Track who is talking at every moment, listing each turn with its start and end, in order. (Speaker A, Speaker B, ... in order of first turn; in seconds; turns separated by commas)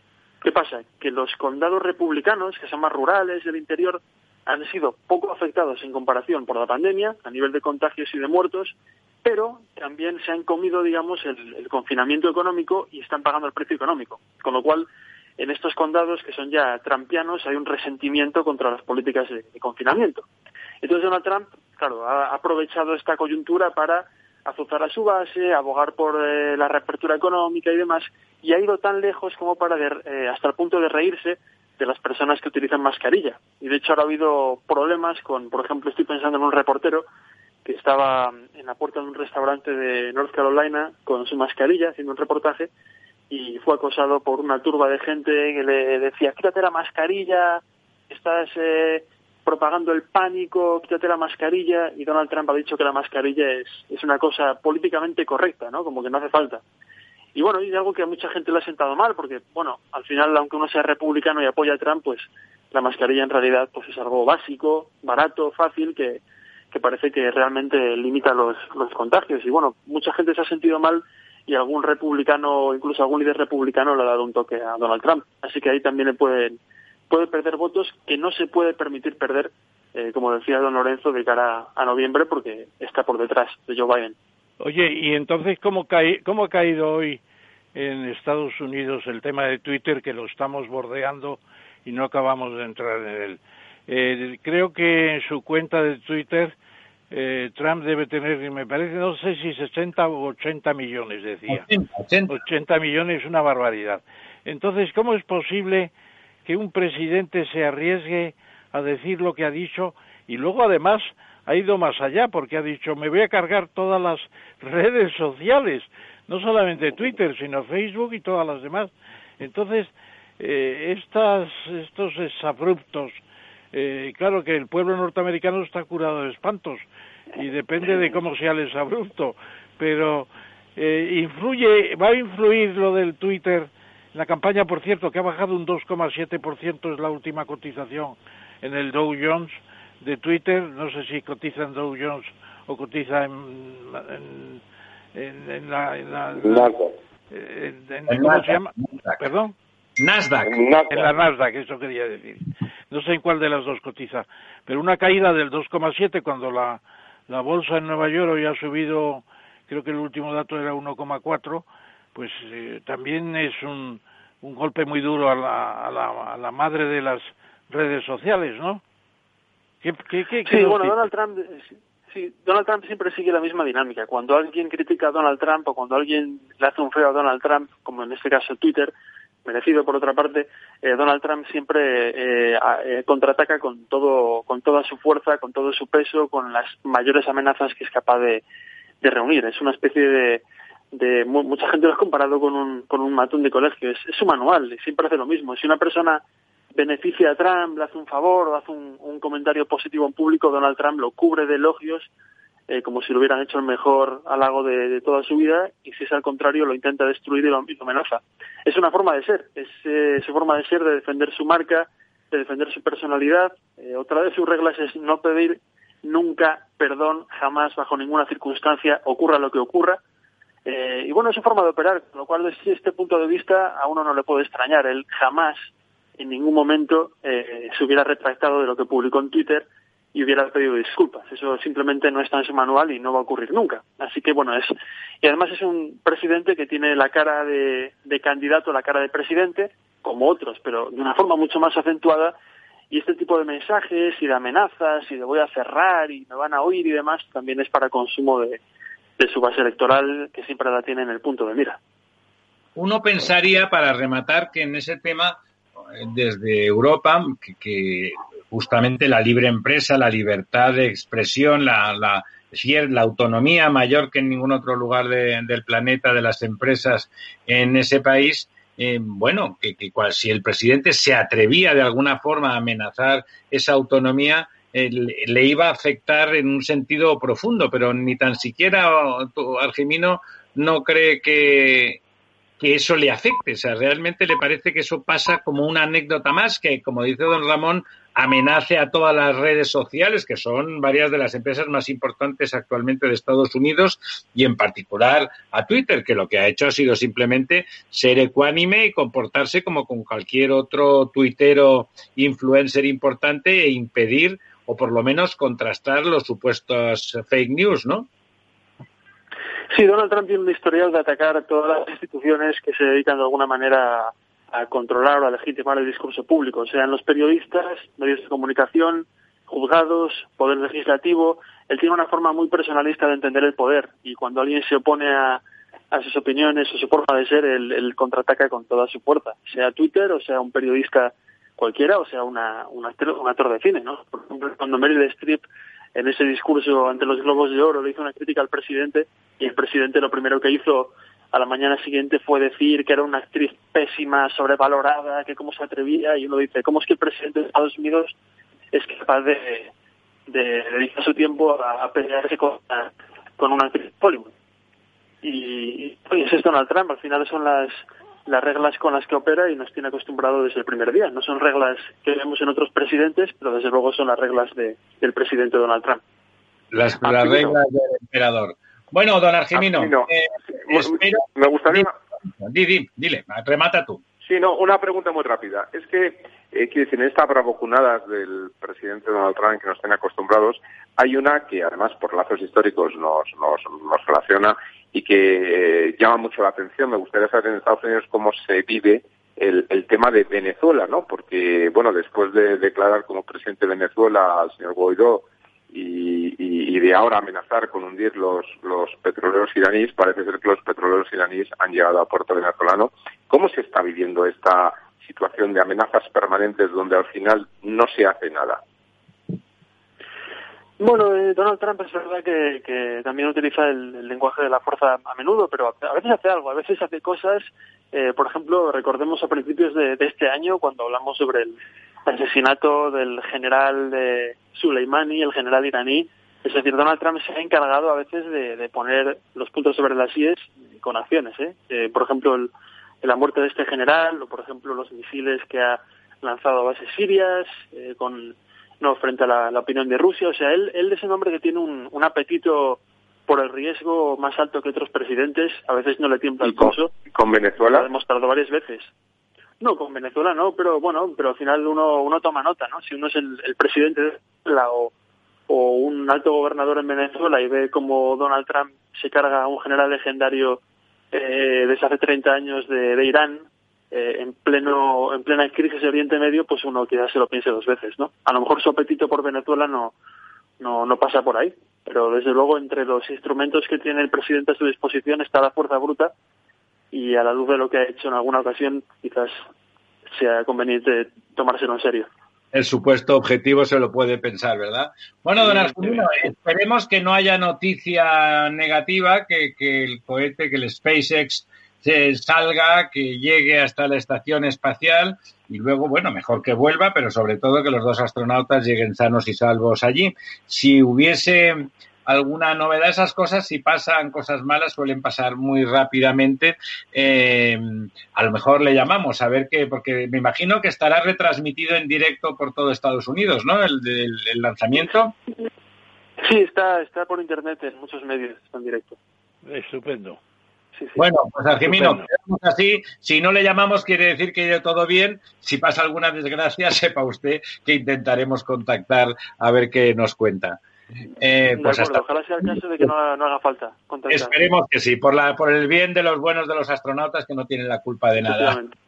Speaker A: 0.4-20.2, Speaker A: 20.8-37.0, Speaker A: 37.6-42.7, Speaker A: 43.3-56.6, Speaker A: 57.3-76.6, Speaker A: 77.1-84.2, Speaker B: 84.6-87.2, Speaker B: 87.7-96.5, Speaker B: 97.1-101.7, Speaker C: 101.5-102.3, Speaker B: 102.3-105.9, Speaker B: 106.5-123.2, Speaker B: 123.7-126.8, Speaker B: 127.3-144.6, Speaker B: 145.1-146.7, Speaker D: 146.4-146.9, Speaker B: 147.3-149.5, Speaker C: 148.1-149.2, Speaker C: 150.0-150.6, Speaker D: 150.4-151.1, Speaker B: 150.9-168.8, Speaker B: 169.8-170.9, Speaker A: 170.4-178.9, Speaker A: 179.4-188.4, Speaker A: 189.0-196.2, Speaker A: 196.7-202.1, Speaker A: 202.7-220.0, Speaker A: 220.7-242.3, Speaker A: 242.9-248.6, Speaker A: 249.2-251.8, Speaker C: 252.8-255.4, Speaker C: 255.9-282.0, Speaker C: 282.6-308.1, Speaker A: 309.7-335.4, Speaker A: 335.9-348.1, Speaker A: 348.7-349.7, Speaker A: 350.3-354.3, Speaker A: 355.2-366.0, Speaker C: 366.7-374.0, Speaker D: 367.2-367.5, Speaker D: 369.5-371.9, Speaker D: 374.2-408.6, Speaker A: 410.8-446.9, Speaker D: 446.4-447.9, Speaker A: 447.7-448.9, Speaker A: 449.6-454.9, Speaker A: 455.5-460.6, Speaker A: 461.1-469.9, Speaker A: 470.6-476.1, Speaker A: 476.9-479.4, Speaker A: 480.1-482.1, Speaker C: 482.5-515.1, Speaker A: 516.2-519.0, Speaker B: 519.5-520.2, Speaker C: 521.0-530.6, Speaker B: 521.6-522.1, Speaker C: 531.2-532.9, Speaker A: 531.5-534.4, Speaker C: 534.1-538.6, Speaker A: 538.2-538.7